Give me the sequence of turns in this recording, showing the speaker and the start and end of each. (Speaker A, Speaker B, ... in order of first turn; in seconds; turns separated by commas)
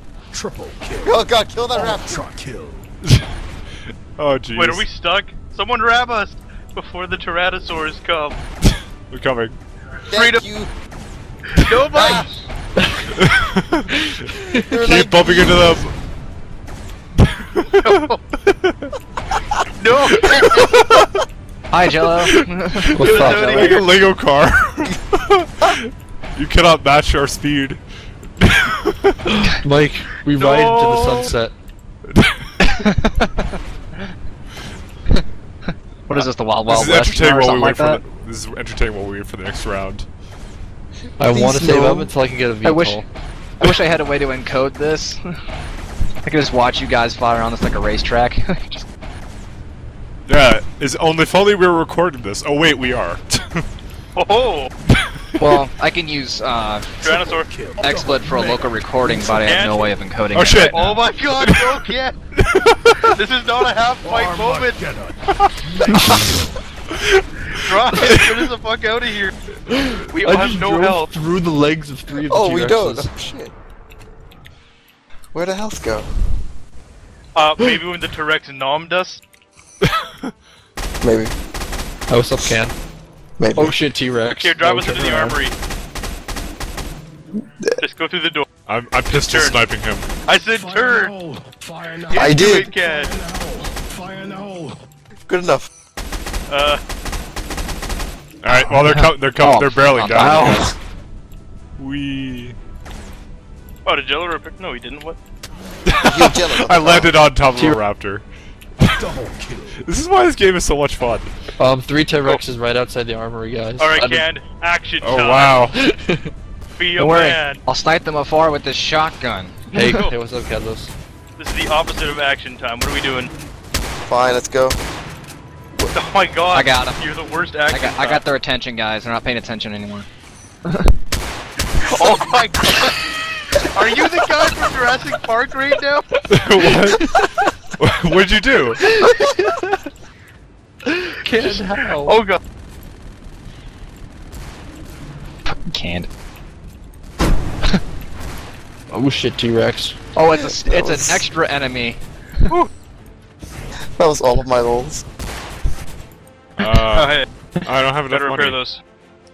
Speaker A: 0.3-1.2, Speaker B: 1.0-2.2, Speaker A: 1.7-2.9, Speaker C: 4.2-4.8, Speaker D: 4.5-8.4, Speaker C: 8.6-9.6, Speaker B: 10.1-10.7, Speaker D: 10.1-10.4, Speaker D: 11.5-12.3, Speaker B: 11.9-12.3, Speaker E: 12.8-13.1, Speaker C: 13.1-14.1, Speaker E: 13.9-14.2, Speaker B: 14.5-15.8, Speaker C: 14.7-15.9, Speaker C: 17.2-18.9, Speaker D: 17.8-18.2, Speaker D: 19.8-20.7, Speaker C: 20.1-21.2, Speaker F: 21.7-23.8, Speaker C: 21.9-27.8, Speaker E: 22.9-23.5, Speaker D: 23.0-23.9, Speaker C: 28.4-29.3, Speaker E: 29.3-31.5, Speaker D: 30.4-31.3, Speaker C: 32.1-32.9, Speaker F: 32.6-34.1, Speaker F: 35.1-38.0, Speaker C: 36.1-40.1, Speaker E: 41.2-43.1, Speaker B: 41.3-42.1, Speaker F: 42.6-43.0, Speaker F: 43.6-45.2, Speaker F: 46.2-48.8, Speaker C: 50.3-53.6, Speaker D: 54.1-54.7, Speaker C: 54.9-55.6, Speaker F: 55.4-57.0, Speaker D: 57.0-57.5, Speaker A: 57.3-59.4, Speaker F: 57.8-61.0, Speaker D: 59.4-59.9, Speaker C: 60.3-63.1, Speaker D: 60.7-62.2, Speaker D: 63.0-64.8, Speaker A: 64.0-66.6, Speaker C: 65.9-66.2, Speaker C: 67.0-68.4, Speaker D: 67.5-69.3, Speaker E: 69.7-73.1, Speaker D: 70.1-71.1, Speaker B: 72.1-73.5, Speaker B: 75.3-76.1, Speaker D: 77.3-79.2, Speaker C: 79.8-80.3, Speaker B: 81.0-81.3, Speaker E: 82.1-82.7, Speaker B: 83.4-83.7, Speaker E: 83.5-85.4, Speaker D: 84.4-85.5, Speaker D: 87.8-88.5, Speaker C: 88.7-90.1, Speaker D: 89.1-89.6, Speaker D: 90.2-91.2, Speaker D: 92.0-93.2, Speaker B: 92.1-92.7, Speaker A: 93.3-93.6, Speaker B: 95.3-95.7, Speaker D: 96.5-96.8, Speaker C: 98.4-100.7, Speaker F: 98.5-100.7, Speaker C: 101.8-102.5, Speaker D: 103.8-105.2, Speaker C: 105.8-108.2, Speaker B: 106.0-107.1, Speaker A: 108.8-109.8, Speaker C: 109.8-111.3, Speaker E: 111.6-114.2, Speaker D: 113.8-115.6, Speaker C: 115.0-115.8, Speaker E: 115.7-116.3, Speaker D: 116.8-117.6, Speaker F: 117.0-119.9, Speaker E: 119.7-120.9, Speaker D: 119.8-120.1, Speaker D: 121.4-123.3, Speaker B: 124.1-124.8, Speaker D: 125.9-128.2, Speaker F: 126.5-127.0, Speaker F: 127.7-130.1, Speaker F: 130.7-130.9, Speaker D: 131.8-133.0, Speaker D: 133.6-136.2, Speaker C: 136.3-137.2, Speaker E: 137.0-137.3, Speaker C: 137.8-138.8, Speaker E: 138.8-139.8, Speaker E: 140.8-142.2, Speaker D: 141.4-142.4, Speaker F: 145.4-146.1, Speaker E: 148.9-150.0, Speaker F: 150.1-152.5, Speaker B: 150.7-151.2, Speaker B: 154.0-155.0, Speaker C: 156.6-158.6, Speaker D: 156.6-157.3, Speaker D: 158.1-158.8